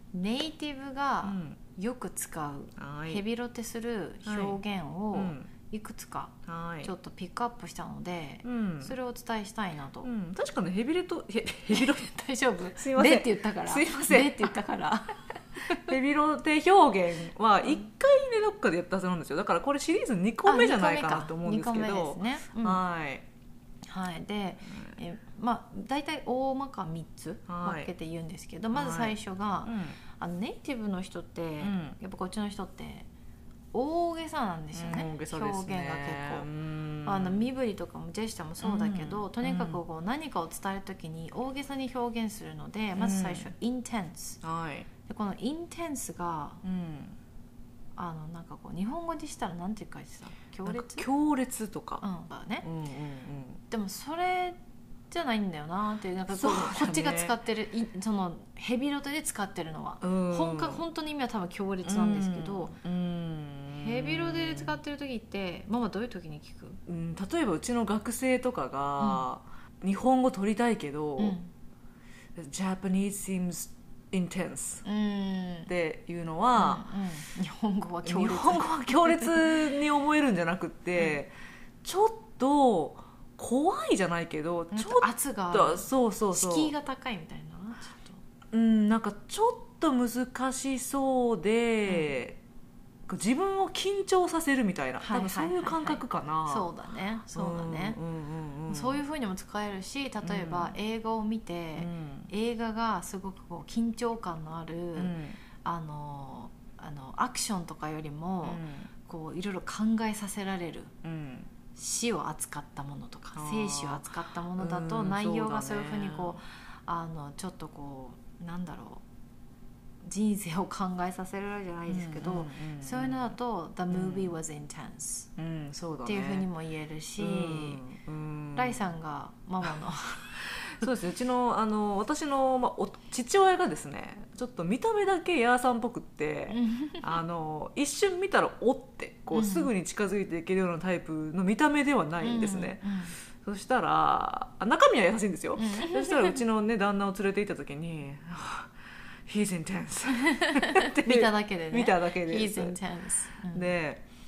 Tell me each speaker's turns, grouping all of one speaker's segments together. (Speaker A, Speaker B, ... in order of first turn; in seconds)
Speaker A: 0.1-10.1, 11.7-15.7, 20.4-22.8, 23.9-33.1, 33.7-36.5, 37.0-44.4, 45.1-46.6, 48.0-51.1, 52.0-52.7, 53.7-54.6, 55.1-62.8, 63.7-66.8, 69.0-69.3, 71.2-71.5, 74.8-75.7, 76.6-79.6, 84.7-88.2, 91.9-92.2, 95.0-98.0, 98.7-110.9, 111.8-119.0, 120.0-125.3, 126.0-127.8, 128.6-130.9, 136.5-137.1, 139.3-139.7, 142.2-143.2, 145.6-146.4, 150.3-153.8
Speaker B: 1.2-1.6, 2.8-3.2, 4.2-4.6, 5.1-5.5, 6.5-6.9, 8.4-8.9, 10.0-12.2, 12.8-14.6, 15.6-23.2, 27.5-27.9, 28.7-30.0, 31.6-32.0, 34.7-37.5, 38.6-39.8, 43.0-43.5, 44.4-44.9, 46.6-47.2, 50.7-52.0, 52.6-53.6, 56.3-57.4, 60.0-60.8, 61.8-64.8, 66.9-71.4, 72.4-74.8, 75.7-76.9, 78.0-86.7, 88.5-92.4, 93.1-96.7, 97.3-99.0, 100.2-100.8, 101.8-102.3, 105.0-105.4, 108.4-108.9, 111.0-111.5, 113.3-116.4, 121.9-123.4, 123.9-124.3, 125.4-126.5, 127.2-128.8, 130.6-142.8, 143.4-148.7, 149.3-152.8, 153.5-154.0